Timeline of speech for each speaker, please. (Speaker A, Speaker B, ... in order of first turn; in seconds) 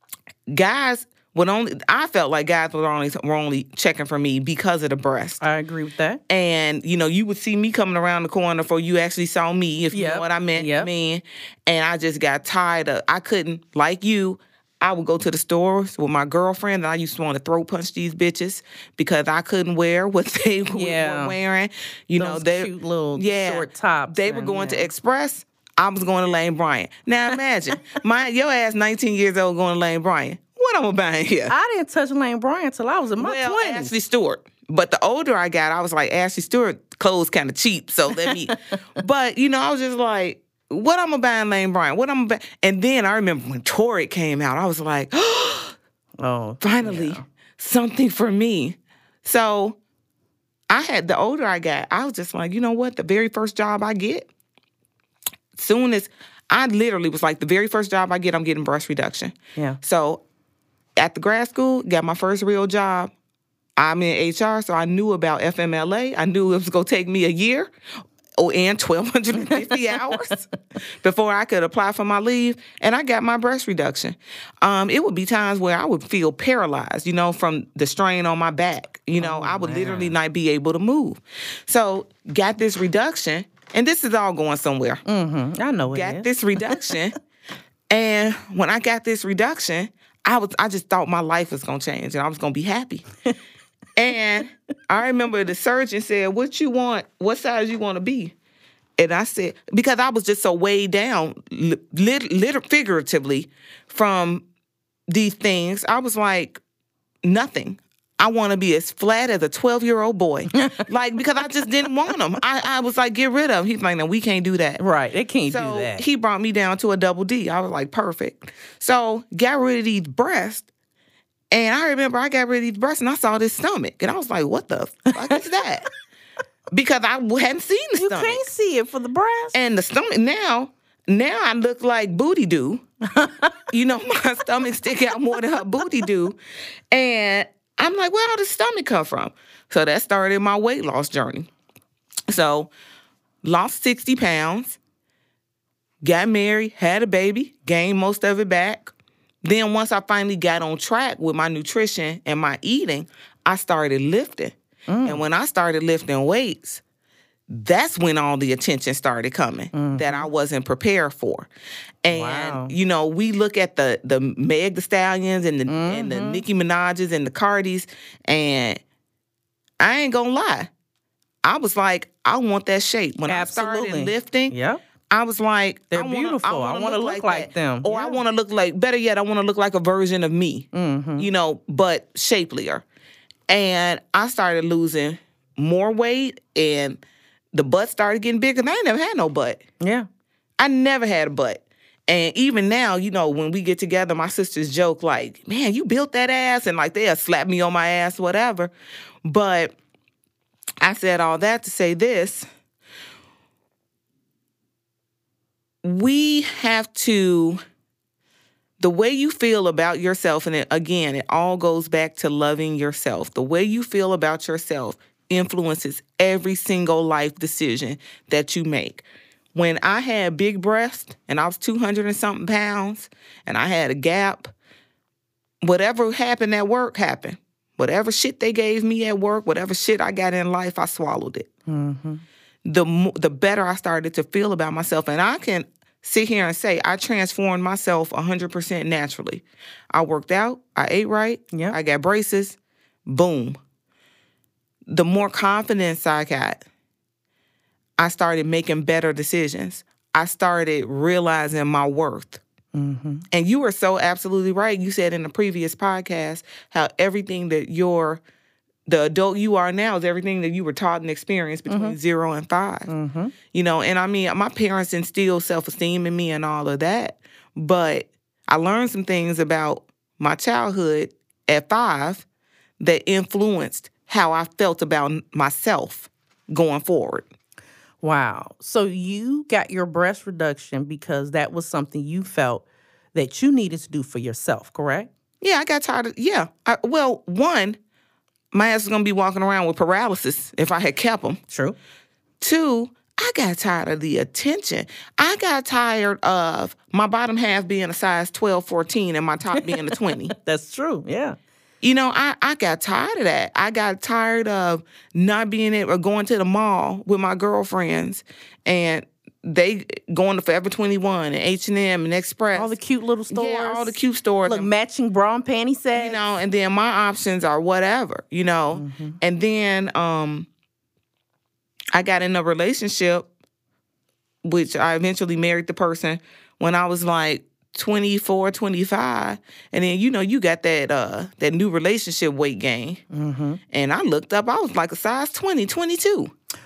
Speaker A: 0.5-5.4, 6.3-31.5, 33.2-45.8, 46.6-49.8, 50.7-54.3, 55.5-60.2, 61.0-63.1, 63.8-67.7, 68.4-70.5, 71.0-85.0, 85.9-87.1, 87.9-93.0, 94.0-98.3, 99.0-104.4, 105.1-106.6, 107.2-114.8, 115.5-120.7, 121.5-125.9, 126.7-128.4, 129.5-132.8, 133.7-136.4, 136.9-141.5, 142.3-142.7, 143.4-144.8, 146.0-148.9, 149.4-156.8, 157.5-161.5, 162.0-168.8, 169.8-170.7, 171.4-174.5, 175.1-182.8, 183.5-187.0, 187.5-189.6, 190.6-198.7, 199.2-199.8, 200.8-202.4, 205.8-207.6, 208.8-224.5, 225.6-231.5, 232.6-243.6, 244.9-246.6, 248.0-252.4, 253.3-258.2, 258.9-262.9, 263.5-272.2, 272.8-277.2, 285.4-287.8, 288.5-291.4, 292.4-300.3, 301.8-312.8, 313.3-314.7, 315.9-320.5, 321.9-323.3, 324.4-333.0, 333.7-336.3
Speaker B: 5.4-6.2, 9.9-10.9, 20.7-21.4, 22.2-24.9, 31.5-33.9, 38.2-38.5, 46.2-47.2, 69.4-70.2, 79.2-80.2, 85.0-86.9, 110.6-110.9, 114.8-116.0, 128.0-129.6, 133.0-133.6, 154.9-155.2, 159.7-160.3, 162.1-162.7, 165.7-166.4, 173.3-174.8, 175.9-178.2, 180.7-181.3, 189.8-190.1, 231.7-232.2, 252.7-253.2, 261.7-261.9, 262.9-263.3, 278.0-285.1, 291.5-291.8, 299.6-301.4, 312.5-316.2, 318.8-319.2, 333.1-333.6